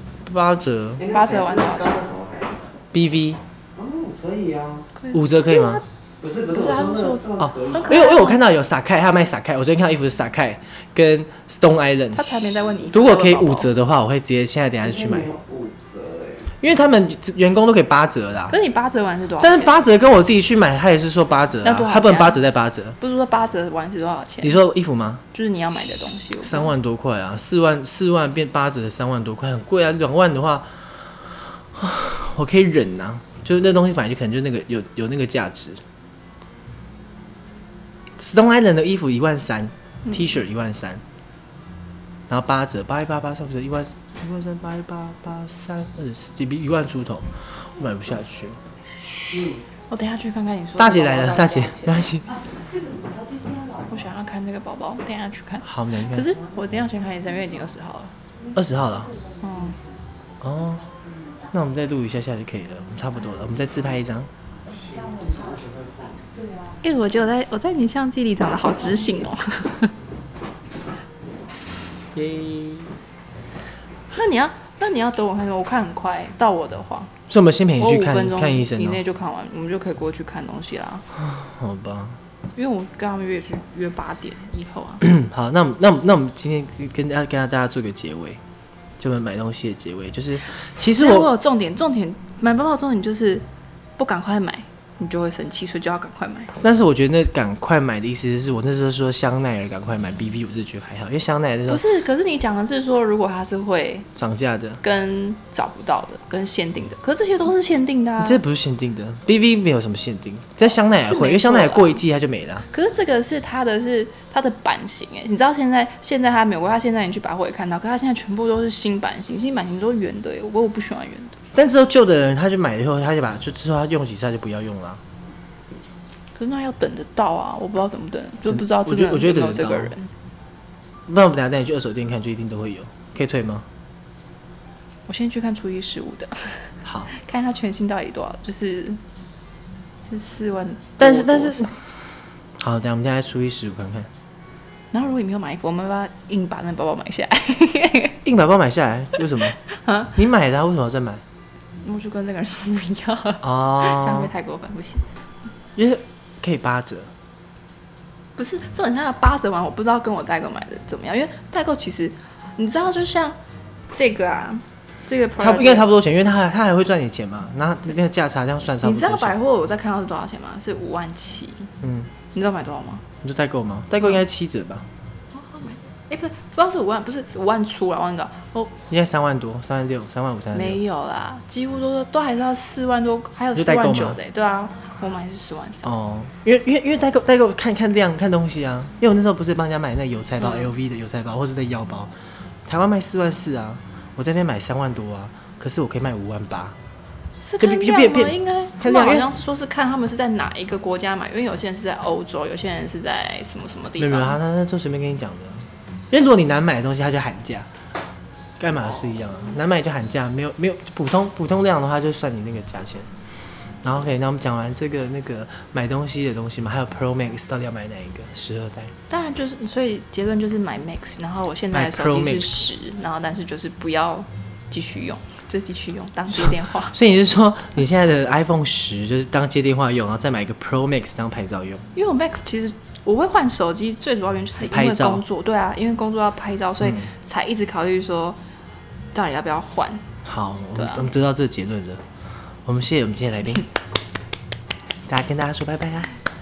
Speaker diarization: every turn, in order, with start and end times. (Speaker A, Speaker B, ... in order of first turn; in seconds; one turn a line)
Speaker A: 0.2-1.0
Speaker B: 1.0-2.7
Speaker C: 1.1-2.0
Speaker A: 2.9-3.4
Speaker B: 3.7-4.9
Speaker C: 5.0-5.8
Speaker A: 5.1-5.8
Speaker B: 6.2-8.1
Speaker C: 6.5-8.4
Speaker A: 7.4-12.2
Speaker C: 12.1-13.7
Speaker A: 12.9-15.3
Speaker B: 14.8-16.5
Speaker A: 16.6-18.5
Speaker C: 18.5-19.7
Speaker A: 19.4-22.9
Speaker C: 21.6-22.4
Speaker C: 23.0-24.6
Speaker A: 24.4-25.2
Speaker C: 25.3-26.7
Speaker A: 26.4-35.8
Speaker A: 38.2-41.0
Speaker A: 42.3-48.6
Speaker C: 49.9-52.0
Speaker A: 50.8-52.3
Speaker C: 53.8-58.1
Speaker A: 55.6-56.4
Speaker A: 58.5-59.1
Speaker C: 59.4-59.8
Speaker A: 60.4-60.9
Speaker A: 61.5-64.3
Speaker B: 64.7-66.4
Speaker C: 66.8-69.9
Speaker A: 72.1-72.9
Speaker C: 74.1-77.1
Speaker A: 77.3-79.0
Speaker C: 77.8-81.0
Speaker A: 81.1-82.2
Speaker C: 82.5-85.0
Speaker A: 85.0-88.4
Speaker A: 89.0-91.3
Speaker C: 91.0-93.4
Speaker C: 94.0-96.5
Speaker A: 96.6-101.8
Speaker C: 101.7-104.1
Speaker A: 104.2-104.8
Speaker C: 104.8-108.4
Speaker A: 108.2-112.6
Speaker C: 110.9-112.0
Speaker C: 112.7-121.3
Speaker A: 121.5-125.0
Speaker C: 126.3-130.1
Speaker A: 128.5-129.9
Speaker A: 131.1-133.7
Speaker C: 135.1-139.0
Speaker A: 136.8-137.1
Speaker C: 140.0-141.7
Speaker A: 141.0-141.7
Speaker A: 142.6-144.1
Speaker C: 144.9-148.2
Speaker A: 148.2-149.6
Speaker C: 149.7-150.1
Speaker A: 150.1-151.2
Speaker C: 151.8-155.1
Speaker A: 153.4-154.3
Speaker A: 155.8-157.1
Speaker C: 158.3-163.4
Speaker C: 163.9-165.9
Speaker A: 165.4-169.3
Speaker C: 168.8-171.7
Speaker A: 171.8-172.1
Speaker C: 172.3-173.0
Speaker A: 173.2-174.8
Speaker C: 175.3-178.7
Speaker A: 178.9-180.8
Speaker C: 180.5-185.9
Speaker A: 183.5-184.2
Speaker A: 185.8-192.1
Speaker C: 190.4-190.7
Speaker A: 192.7-196.8
Speaker C: 197.4-204.4
Speaker A: 197.6-199.3
Speaker A: 204.0-207.7
Speaker A: 208.6-213.1
Speaker A: 213.8-218.9
Speaker C: 219.1-226.9
Speaker A: 221.7-222.6
Speaker A: 226.3-231.8
Speaker C: 231.9-238.4
Speaker A: 234.5-235.2
Speaker C: 239.1-240.0
Speaker A: 240.2-242.0
Speaker C: 240.8-241.1
Speaker A: 242.6-243.7
Speaker A: 245.1-246.1